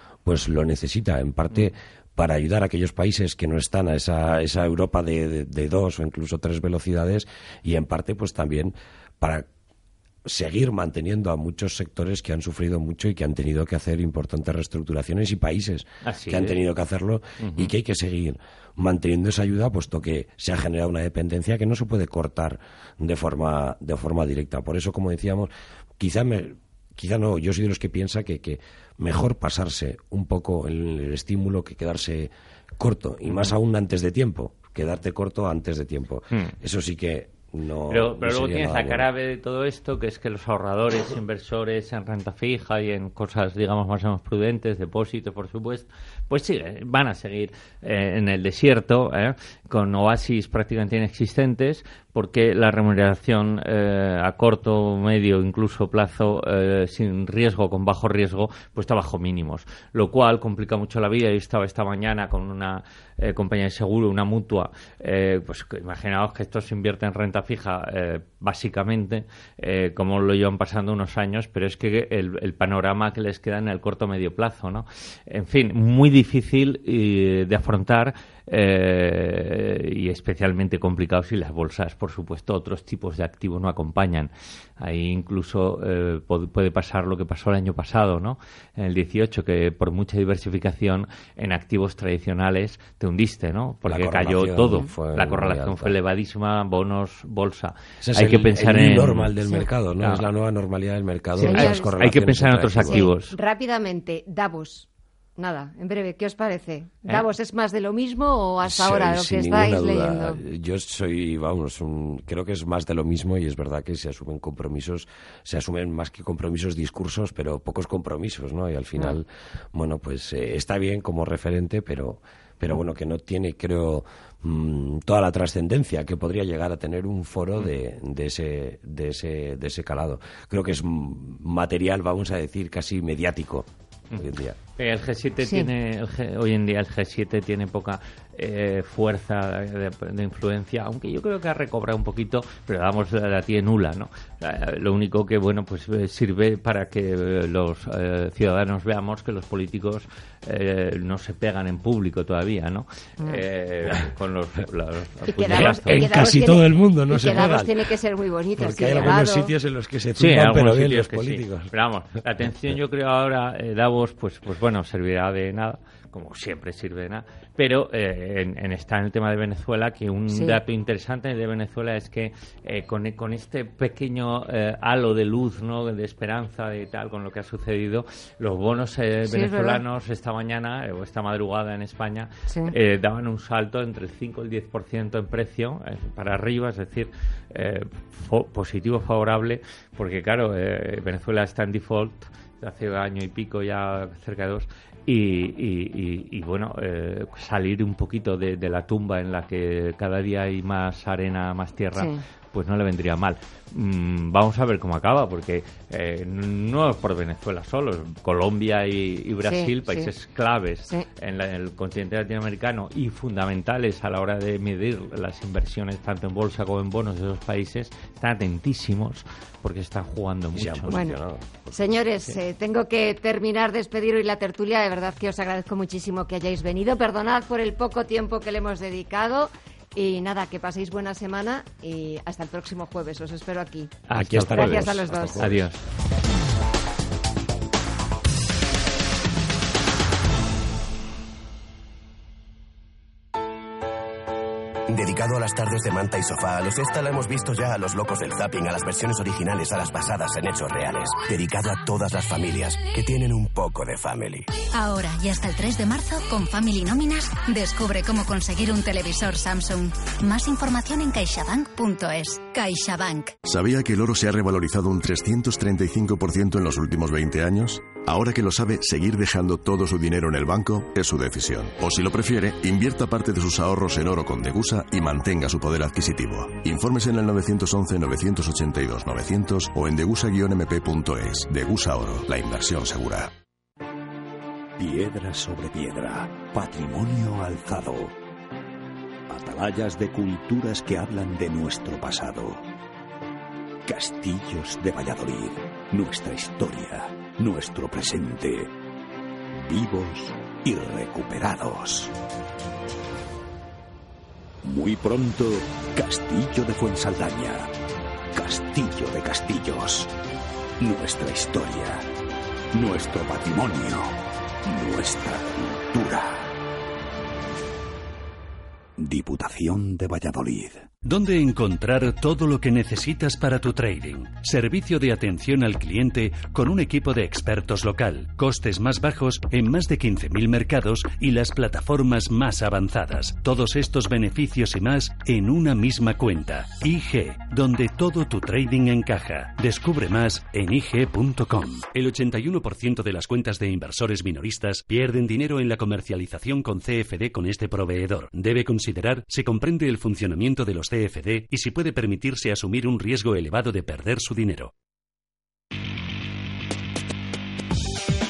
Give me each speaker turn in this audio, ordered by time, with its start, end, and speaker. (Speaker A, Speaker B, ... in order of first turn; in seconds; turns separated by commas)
Speaker A: 0.2-9.4, Speaker A: 10.2-39.0, Speaker B: 16.0-16.6, Speaker B: 17.4-17.7, Speaker B: 33.3-33.5, Speaker B: 37.9-99.3, Speaker A: 93.9-95.9, Speaker A: 98.0-103.0, Speaker B: 101.3-103.3, Speaker C: 101.4-101.9, Speaker C: 102.8-110.4, Speaker A: 108.6-134.6, Speaker B: 134.1-156.4, Speaker C: 135.4-135.7, Speaker C: 155.3-159.5, Speaker A: 155.5-157.8, Speaker A: 158.6-162.8, Speaker B: 160.1-221.1, Speaker C: 170.3-170.6, Speaker C: 179.2-179.8, Speaker C: 182.5-182.7, Speaker C: 209.4-210.1, Speaker A: 220.6-221.8, Speaker C: 220.9-221.2, Speaker C: 221.7-233.9, Speaker B: 234.1-235.8, Speaker A: 234.1-235.6, Speaker C: 234.5-235.4, Speaker D: 244.9-254.5, Speaker E: 254.8-263.3, Speaker F: 263.4-283.3, Speaker G: 284.8-288.1, Speaker G: 289.3-292.6, Speaker G: 293.8-298.7, Speaker G: 299.5-302.1, Speaker G: 304.6-307.7, Speaker G: 308.3-310.1, Speaker G: 310.8-312.1, Speaker G: 312.7-314.1, Speaker G: 314.6-316.5, Speaker G: 319.0-320.9, Speaker H: 321.0-354.7